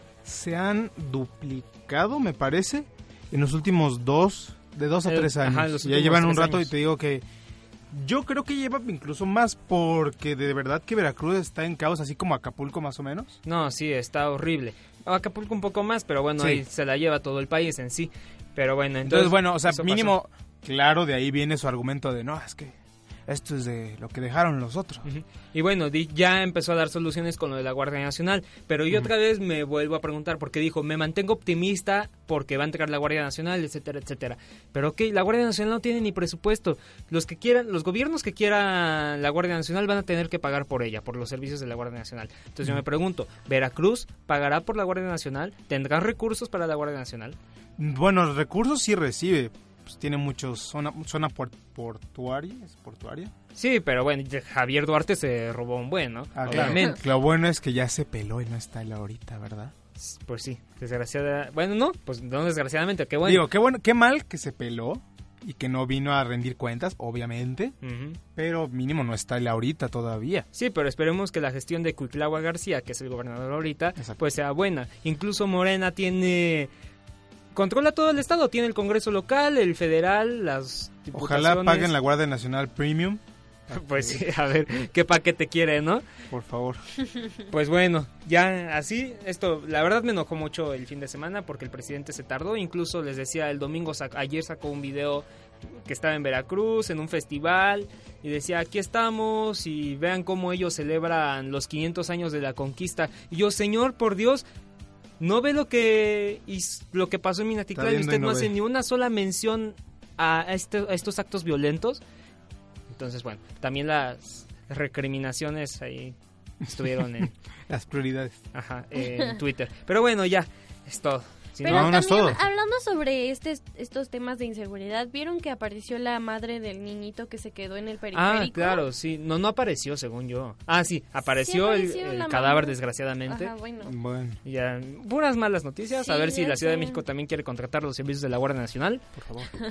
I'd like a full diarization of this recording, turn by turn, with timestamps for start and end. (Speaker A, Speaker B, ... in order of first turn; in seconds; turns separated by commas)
Speaker A: 0.2-7.2, Speaker B: 5.1-6.7, Speaker A: 7.9-13.4, Speaker B: 13.4-20.2, Speaker A: 19.0-22.8, Speaker A: 23.3-25.1, Speaker B: 25.0-47.4, Speaker A: 47.8-53.3, Speaker B: 53.5-57.0, Speaker A: 56.4-59.7, Speaker B: 60.0-63.5, Speaker A: 63.2-67.7, Speaker B: 67.8-68.2, Speaker A: 68.4-70.5, Speaker B: 70.5-76.7, Speaker B: 77.5-81.9, Speaker A: 81.1-84.3, Speaker B: 83.7-86.0, Speaker A: 86.3-86.8, Speaker B: 87.5-104.4, Speaker B: 105.2-112.0, Speaker A: 107.8-108.5, Speaker B: 112.9-116.2, Speaker A: 116.7-118.4, Speaker B: 116.7-117.3, Speaker B: 118.5-122.0, Speaker C: 121.6-128.8, Speaker A: 121.7-122.4, Speaker B: 128.1-133.5, Speaker C: 131.3-132.8, Speaker C: 133.3-133.9, Speaker A: 133.8-134.4, Speaker B: 134.4-139.1, Speaker C: 136.0-137.0, Speaker A: 139.2-139.5